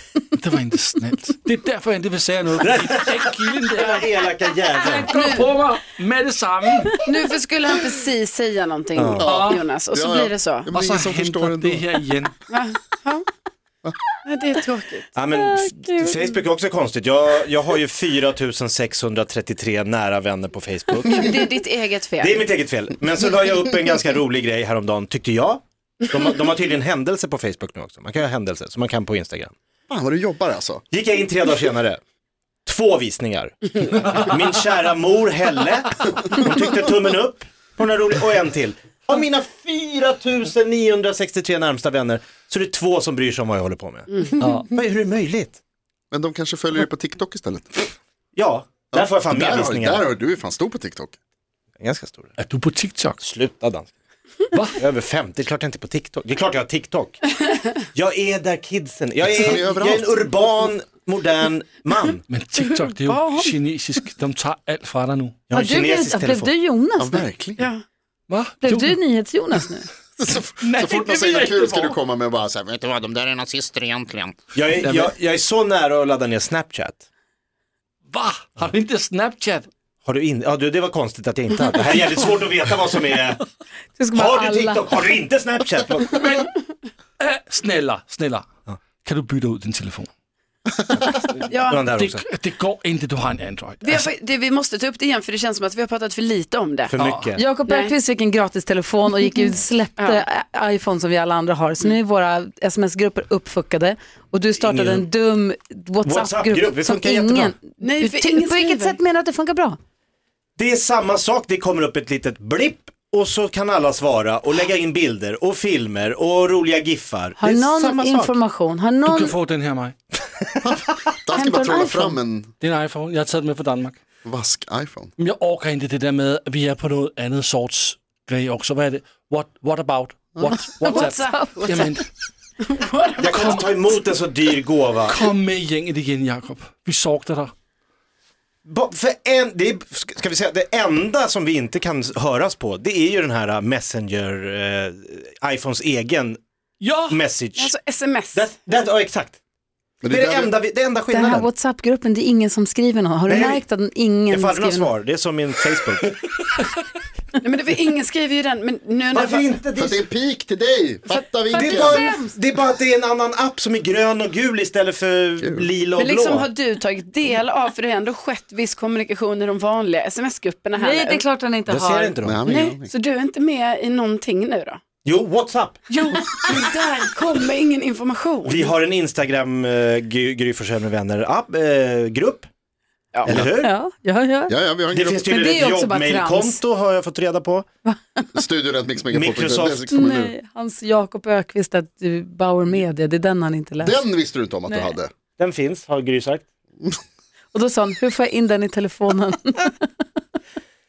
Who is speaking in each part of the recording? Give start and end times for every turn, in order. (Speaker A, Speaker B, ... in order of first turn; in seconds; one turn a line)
Speaker A: 0.3-4.0
Speaker B: 2.6-5.1
Speaker A: 4.8-7.0
Speaker C: 5.2-5.4
Speaker D: 6.9-10.7
Speaker B: 8.9-9.3
Speaker E: 9.2-11.9
Speaker A: 9.2-9.6
Speaker A: 10.7-12.3
Speaker D: 12.5-13.2
Speaker D: 14.2-15.1
Speaker B: 15.1-21.4
Speaker C: 15.3-16.2
Speaker D: 21.1-22.4
Speaker B: 22.2-29.5
Speaker E: 29.9-30.8
Speaker B: 30.9-32.0
Speaker B: 32.6-45.6
Speaker A: 44.4-44.7
Speaker E: 46.1-47.9
Speaker B: 48.3-50.0
Speaker E: 48.9-51.1
Speaker B: 51.8-52.3
Speaker A: 52.4-53.2
Speaker B: 53.2-53.9
Speaker A: 54.5-54.8
Speaker B: 54.8-57.2
Speaker B: 57.9-62.2
Speaker E: 59.2-60.1
Speaker A: 62.3-65.4
Speaker D: 62.6-63.5
Speaker B: 65.5-66.5
Speaker C: 65.5-67.2
Speaker E: 67.0-67.7
Speaker D: 67.6-67.8
Speaker A: 68.3-69.0
Speaker C: 68.6-69.9
Speaker E: 70.2-74.3
Speaker A: 70.6-72.0
Speaker B: 74.5-77.0
Speaker A: 74.7-75.1
Speaker A: 78.1-79.7
Speaker B: 80.0-83.4
Speaker C: 84.0-84.9
Speaker B: 84.1-86.2
Speaker A: 86.1-86.5
Speaker A: 87.2-88.5
Speaker A: 89.0-90.1
Speaker A: 91.1-94.0
Speaker D: 91.4-91.9
Speaker B: 91.7-92.2
Speaker D: 93.8-96.9
Speaker B: 96.8-97.4
Speaker A: 96.9-97.4
Speaker C: 97.3-109.8
Speaker D: 97.7-97.9
Speaker B: 104.6-105.0
Speaker B: 106.0-107.6
Speaker D: 107.8-109.0
Speaker B: 110.6-118.4
Speaker C: 117.4-119.3
Speaker A: 119.0-120.0
Speaker E: 120.6-122.5
Speaker C: 121.3-122.2
Speaker A: 122.6-124.0
Speaker E: 124.2-125.1
Speaker A: 125.2-132.0
Speaker C: 130.8-131.5
Speaker D: 130.8-132.0
Speaker D: 132.6-133.8
Speaker B: 133.2-135.2
Speaker A: 135.1-137.5
Speaker B: 138.6-146.4
Speaker A: 146.8-147.2
Speaker B: 147.1-147.7
Speaker D: 147.6-148.5
Speaker B: 148.3-149.4
Speaker E: 150.0-150.5
Speaker B: 150.1-151.5
Speaker C: 151.1-154.9
Speaker B: 153.3-153.6
Speaker B: 154.3-156.6
Speaker D: 157.4-159.5
Speaker B: 159.1-160.0
Speaker E: 159.8-162.0
Speaker B: 161.5-166.5
Speaker C: 161.6-162.3
Speaker E: 165.4-165.7
Speaker D: 166.0-171.2
Speaker C: 170.8-172.1
Speaker B: 171.7-172.5
Speaker E: 172.2-172.9
Speaker D: 172.5-174.8
Speaker B: 175.0-175.9
Speaker D: 175.9-178.7
Speaker B: 178.4-182.5
Speaker D: 183.1-183.4
Speaker B: 183.2-183.7
Speaker C: 183.5-184.5
Speaker E: 184.5-185.3
Speaker B: 184.9-187.7
Speaker C: 185.3-186.6
Speaker C: 187.8-188.3
Speaker E: 188.3-190.3
Speaker B: 189.1-189.9
Speaker C: 189.9-194.0
Speaker E: 193.8-195.1
Speaker C: 194.7-194.9
Speaker B: 195.4-196.4
Speaker C: 197.5-199.8